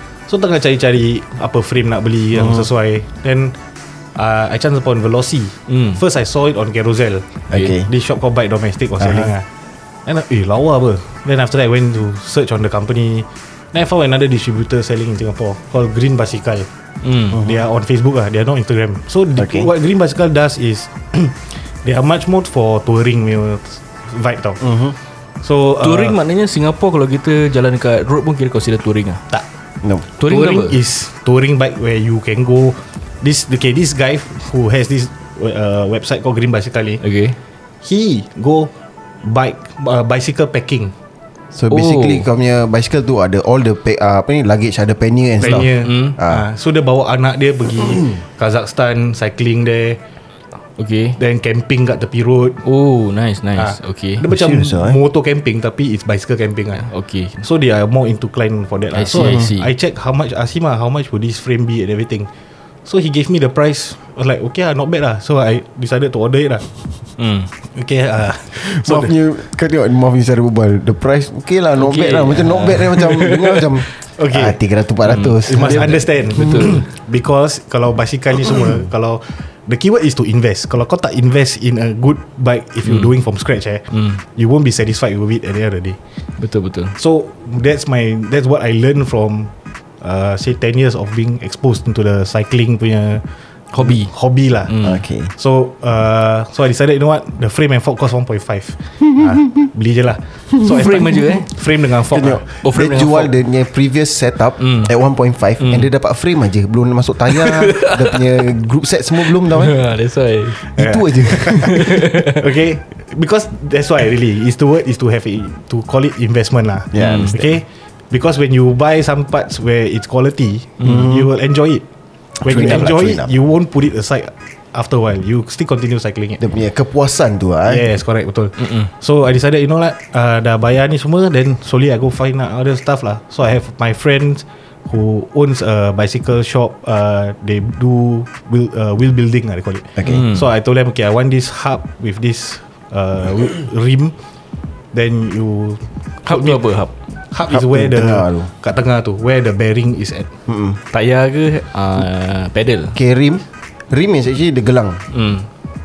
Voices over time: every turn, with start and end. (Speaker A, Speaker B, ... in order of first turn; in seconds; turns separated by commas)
Speaker A: 0.3-3.5, Speaker B: 2.4-2.6, Speaker A: 4.2-9.4, Speaker C: 5.7-6.0, Speaker B: 7.5-7.9, Speaker B: 9.0-9.3, Speaker A: 10.1-16.7, Speaker C: 17.0-17.4, Speaker A: 17.3-24.6, Speaker B: 19.4-19.7, Speaker B: 24.6-24.9, Speaker A: 25.4-26.2, Speaker C: 25.8-29.2, Speaker C: 30.2-30.8, Speaker A: 30.2-37.0, Speaker C: 37.0-37.4, Speaker A: 37.8-38.7, Speaker A: 39.2-40.9, Speaker B: 41.5-46.4, Speaker C: 41.7-42.2, Speaker A: 45.4-50.0, Speaker C: 45.8-46.1, Speaker C: 50.8-51.2, Speaker A: 51.2-52.6, Speaker C: 52.6-54.2, Speaker A: 53.5-62.3, Speaker B: 54.3-55.0, Speaker C: 56.8-57.4, Speaker C: 58.9-59.7, Speaker A: 62.9-66.9, Speaker C: 67.2-67.5, Speaker A: 67.6-69.1, Speaker B: 68.6-76.0, Speaker C: 71.8-73.8, Speaker A: 74.2-74.6, Speaker C: 75.0-76.8, Speaker A: 75.4-86.0, Speaker C: 82.8-83.1, Speaker C: 83.9-84.2, Speaker C: 86.4-87.0, Speaker A: 87.0-93.2, Speaker C: 93.7-94.1, Speaker A: 93.8-94.7, Speaker C: 94.7-95.0, Speaker B: 94.8-95.3, Speaker A: 95.3-102.4, Speaker C: 100.6-101.5, Speaker B: 102.1-109.8, Speaker C: 102.6-103.3, Speaker C: 104.6-104.9, Speaker C: 105.6-105.9, Speaker C: 107.3-108.2, Speaker C: 109.3-110.6, Speaker B: 110.6-111.9, Speaker A: 110.8-121.8, Speaker C: 111.6-112.4, Speaker B: 116.9-117.5, Speaker C: 117.0-117.3, Speaker B: 120.8-121.3, Speaker A: 122.4-126.4, Speaker B: 122.4-123.3, Speaker B: 126.4-127.8, Speaker A: 127.6-144.1, Speaker C: 128.6-128.9, Speaker C: 140.0-140.5, Speaker A: 144.9-146.6, Speaker C: 146.2-146.9, Speaker A: 147.3-150.3, Speaker B: 147.5-148.5, Speaker B: 150.5-150.8, Speaker C: 150.9-152.9, Speaker B: 152.9-155.0, Speaker C: 155.1-155.5